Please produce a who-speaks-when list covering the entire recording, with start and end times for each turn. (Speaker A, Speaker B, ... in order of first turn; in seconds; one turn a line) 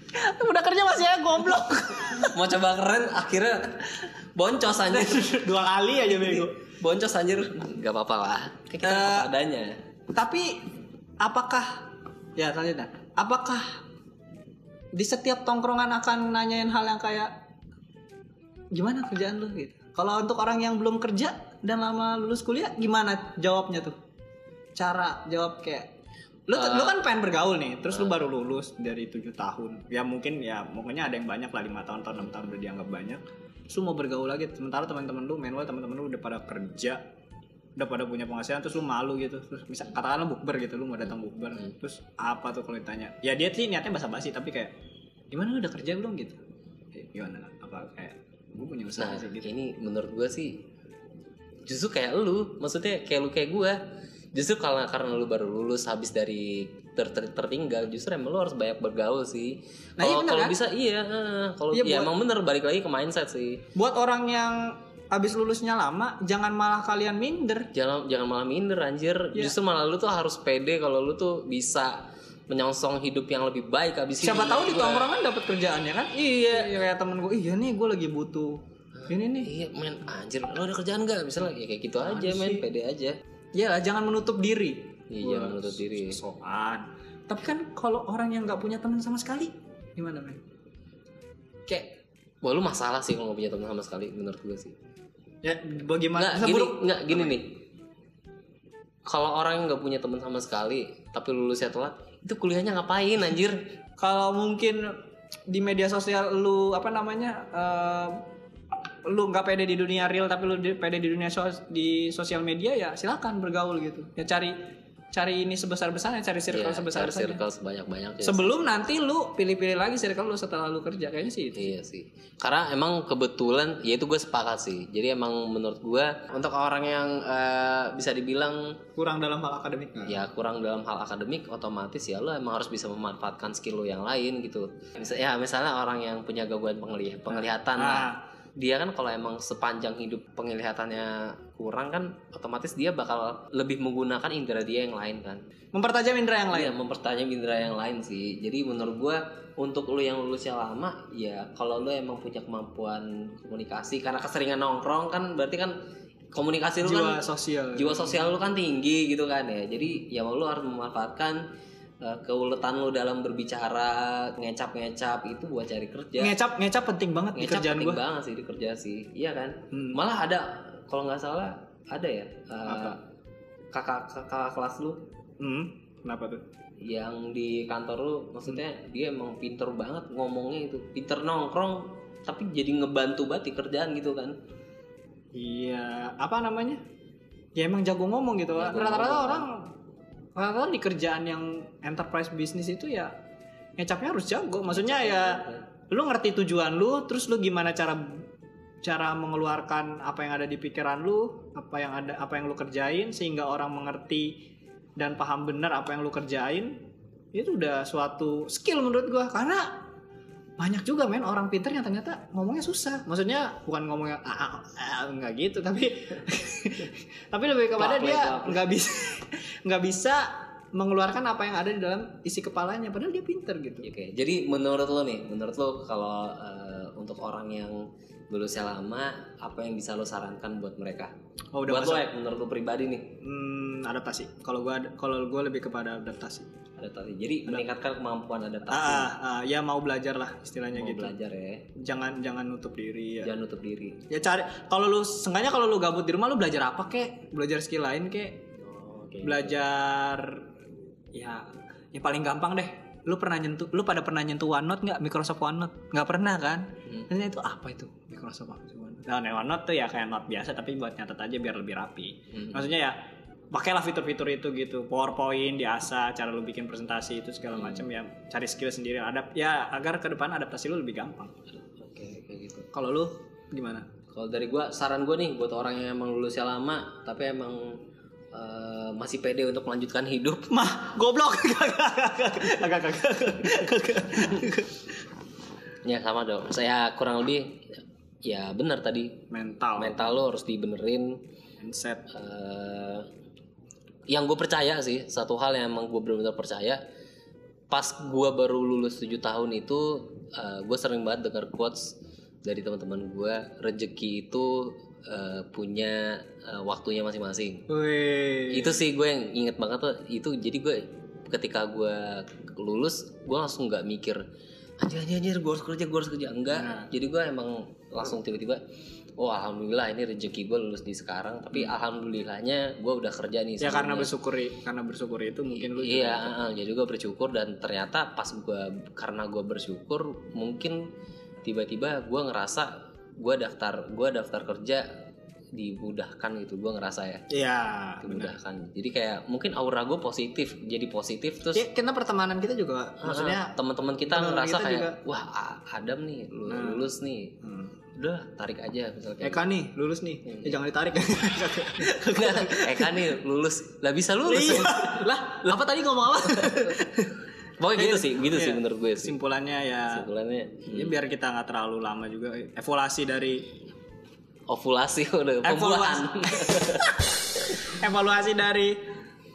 Speaker A: 0.1-2.4
Speaker B: 2.0-5.4
Speaker A: 4.9-6.5
Speaker B: 6.2-9.8
Speaker A: 8.8-9.3
Speaker A: 10.1-10.7
Speaker A: 11.2-13.8
Speaker A: 14.9-17.4
Speaker A: 18.7-24.0
Speaker A: 24.8-25.9
Speaker A: 26.5-37.0
Speaker B: 26.6-26.9
Speaker A: 37.8-44.7
Speaker A: 45.3-46.4
Speaker A: 46.9-49.5
Speaker B: 49.0-50.6
Speaker B: 51.6-53.8
Speaker B: 54.3-63.6
Speaker A: 60.0-60.6
Speaker A: 61.7-62.1
Speaker A: 63.7-67.7
Speaker B: 67.7-75.1
Speaker A: 74.2-79.5
Speaker B: 79.0-83.2
Speaker A: 82.0-82.6
Speaker A: 83.5-90.4
Speaker B: 85.1-86.2
Speaker B: 92.4-94.7
Speaker A: 95.4-97.4
Speaker B: 96.2-97.6
Speaker B: 99.0-103.6
Speaker A: 104.0-105.0
Speaker A: 105.5-108.3
Speaker A: 109.0-114.6
Speaker A: 115.1-117.4
Speaker B: 116.5-118.6
Speaker A: 118.2-121.7
Speaker B: 121.5-128.8
Speaker A: 129.0-130.2
Speaker B: 130.1-145.4
Speaker A: 137.3-138.2
Speaker A: 145.7-146.7
Speaker B: 146.5-155.7
Speaker B: 156.3-157.2
Speaker A: 156.8-158.2
Speaker B: 157.8-161.4
Speaker B: 162.0-166.3
Speaker A: 166.2-168.0
Speaker B: 167.3-173.0
Speaker A: 169.7-170.0
Speaker A: 172.7-173.0
Speaker B: 173.7-175.0
Speaker A: 175.4-176.4
Speaker B: 176.8-184.3
Speaker A: 185.3-186.8
Speaker A: 187.5-189.7
Speaker B: 188.6-189.5
Speaker A: 190.3-193.1
Speaker A: 193.8-198.2
Speaker B: 194.7-195.6
Speaker A: 198.8-204.4
Speaker A: 205.0-206.8
Speaker A: 207.3-209.8
Speaker A: 210.6-223.8
Speaker B: 217.8-218.7
Speaker B: 223.8-231.1
Speaker A: 231.5-232.1
Speaker B: 231.7-233.2
Speaker A: 233.2-236.5
Speaker B: 236.8-239.1
Speaker A: 238.7-241.1
Speaker B: 240.7-241.6
Speaker A: 241.8-243.3
Speaker B: 243.2-244.0
Speaker A: 244.1-248.4
Speaker B: 248.6-249.6
Speaker A: 249.2-250.5
Speaker A: 251.1-263.0
Speaker B: 262.3-262.6
Speaker A: 263.5-271.3
Speaker B: 271.7-272.7
Speaker A: 272.7-273.9
Speaker B: 274.1-280.5
Speaker A: 280.5-284.8
Speaker B: 285.8-291.2
Speaker A: 289.3-290.1
Speaker A: 291.6-292.1
Speaker B: 292.1-293.1
Speaker B: 294.1-296.8
Speaker B: 297.7-307.7
Speaker A: 307.7-308.8
Speaker B: 308.5-314.2
Speaker B: 314.8-318.6
Speaker A: 316.5-316.9
Speaker B: 319.2-324.1
Speaker A: 323.6-326.3
Speaker B: 325.5-330.8
Speaker B: 331.4-334.9
Speaker B: 335.5-337.2
Speaker A: 337.3-338.4
Speaker B: 338.0-341.6
Speaker A: 341.5-343.6
Speaker B: 343.0-347.4
Speaker A: 344.1-345.0
Speaker A: 346.5-346.9
Speaker A: 347.4-347.7
Speaker B: 347.9-349.4
Speaker A: 349.2-353.1
Speaker B: 350.2-350.6
Speaker B: 352.0-355.0
Speaker A: 354.2-357.2
Speaker B: 356.2-356.8
Speaker B: 357.6-359.1
Speaker A: 357.7-360.1
Speaker B: 359.9-360.9
Speaker A: 360.7-363.5
Speaker B: 364.5-367.6
Speaker A: 365.4-367.0
Speaker A: 367.6-368.9